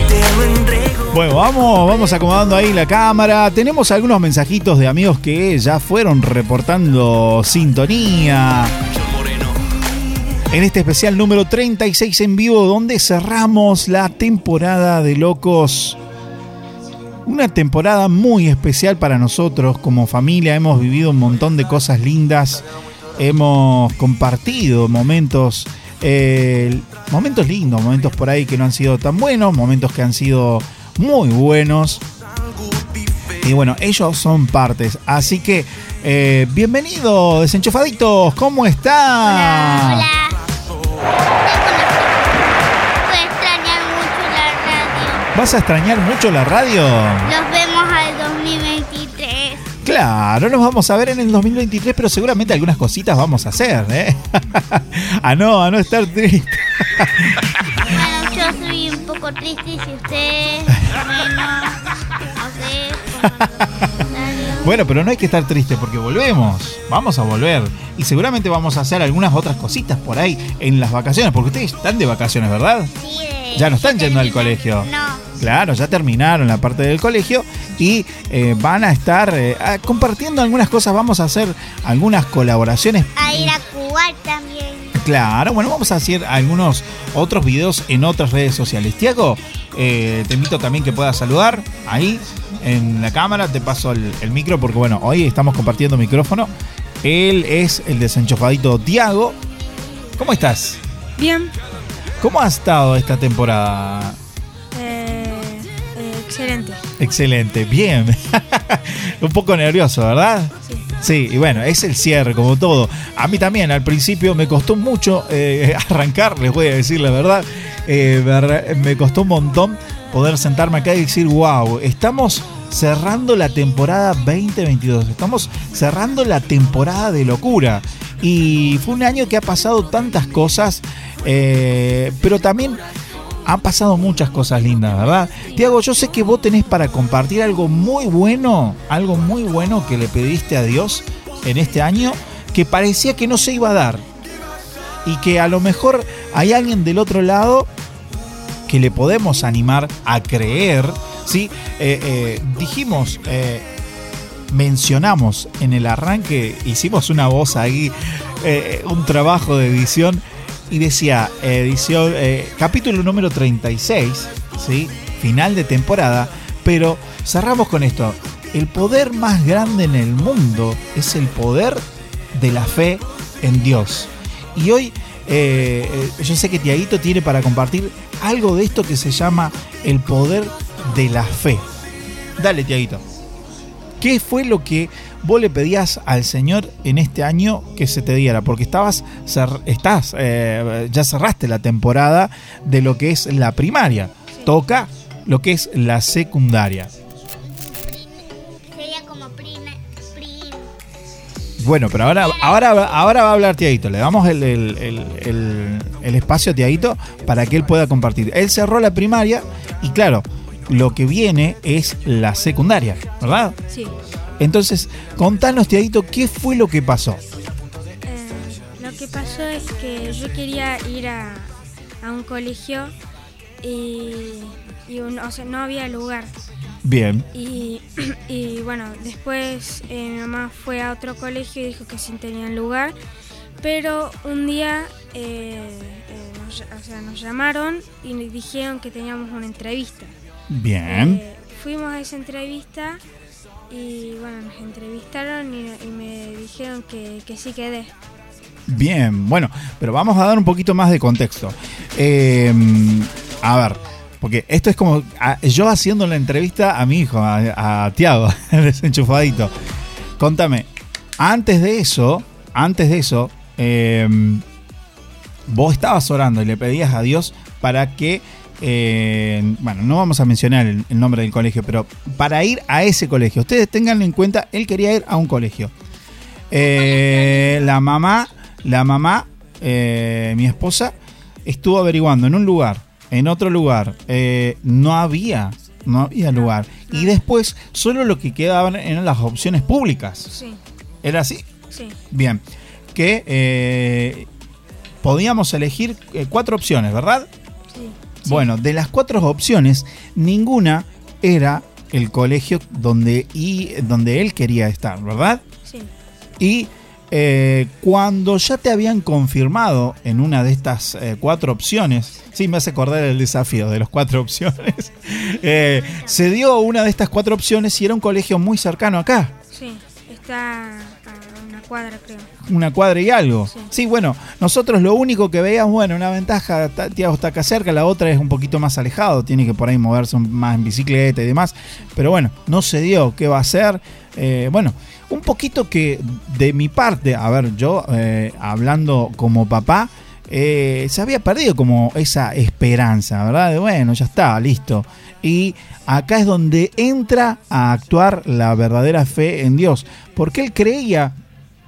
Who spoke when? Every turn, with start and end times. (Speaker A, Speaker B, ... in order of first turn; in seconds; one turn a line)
Speaker A: 1.1-8.7
Speaker A: 10.5-16.0
Speaker A: 17.2-22.7
Speaker A: 23.2-32.0
Speaker A: 33.4-40.1
Speaker B: 39.2-40.4
Speaker B: 41.4-45.3
Speaker A: 45.3-47.3
Speaker B: 47.2-49.6
Speaker A: 49.8-57.4
Speaker B: 57.9-61.8
Speaker B: 62.4-63.4
Speaker B: 64.1-64.8
Speaker A: 64.6-72.9
Speaker B: 73.0-75.3
Speaker A: 73.5-83.5
Speaker B: 83.2-85.0
Speaker A: 85.0-96.5
Speaker A: 97.0-99.4
Speaker A: 100.2-100.8
Speaker C: 101.2-101.5
Speaker A: 102.2-104.2
Speaker C: 104.7-106.8
Speaker A: 107.0-132.8
Speaker A: 133.4-144.1
Speaker A: 145.1-147.7
Speaker A: 148.7-153.7
Speaker A: 154.5-181.7
Speaker A: 182.4-183.0
Speaker A: 184.0-196.9
Speaker B: 197.4-200.7
Speaker A: 201.6-213.6
Speaker C: 213.7-213.9
Speaker A: 214.4-217.2
Speaker C: 218.0-222.9
Speaker C: 223.6-226.3
Speaker A: 226.8-227.2
Speaker C: 227.3-232.9
Speaker C: 233.6-240.1
Speaker A: 240.5-241.2
Speaker C: 240.8-243.0
Speaker C: 243.7-247.9
Speaker A: 248.7-259.5
Speaker A: 260.2-264.4
Speaker A: 265.5-275.7
Speaker A: 276.5-290.3
Speaker C: 286.3-287.1
Speaker C: 290.3-290.6
Speaker A: 291.0-291.5
Speaker C: 291.7-292.0
Speaker A: 292.1-292.4
Speaker A: 292.9-294.3
Speaker A: 295.0-297.3
Speaker C: 297.7-298.5
Speaker A: 298.2-305.4
Speaker C: 305.6-305.9
Speaker A: 306.4-319.3
Speaker C: 319.5-322.3
Speaker A: 322.4-351.1
Speaker C: 323.5-323.7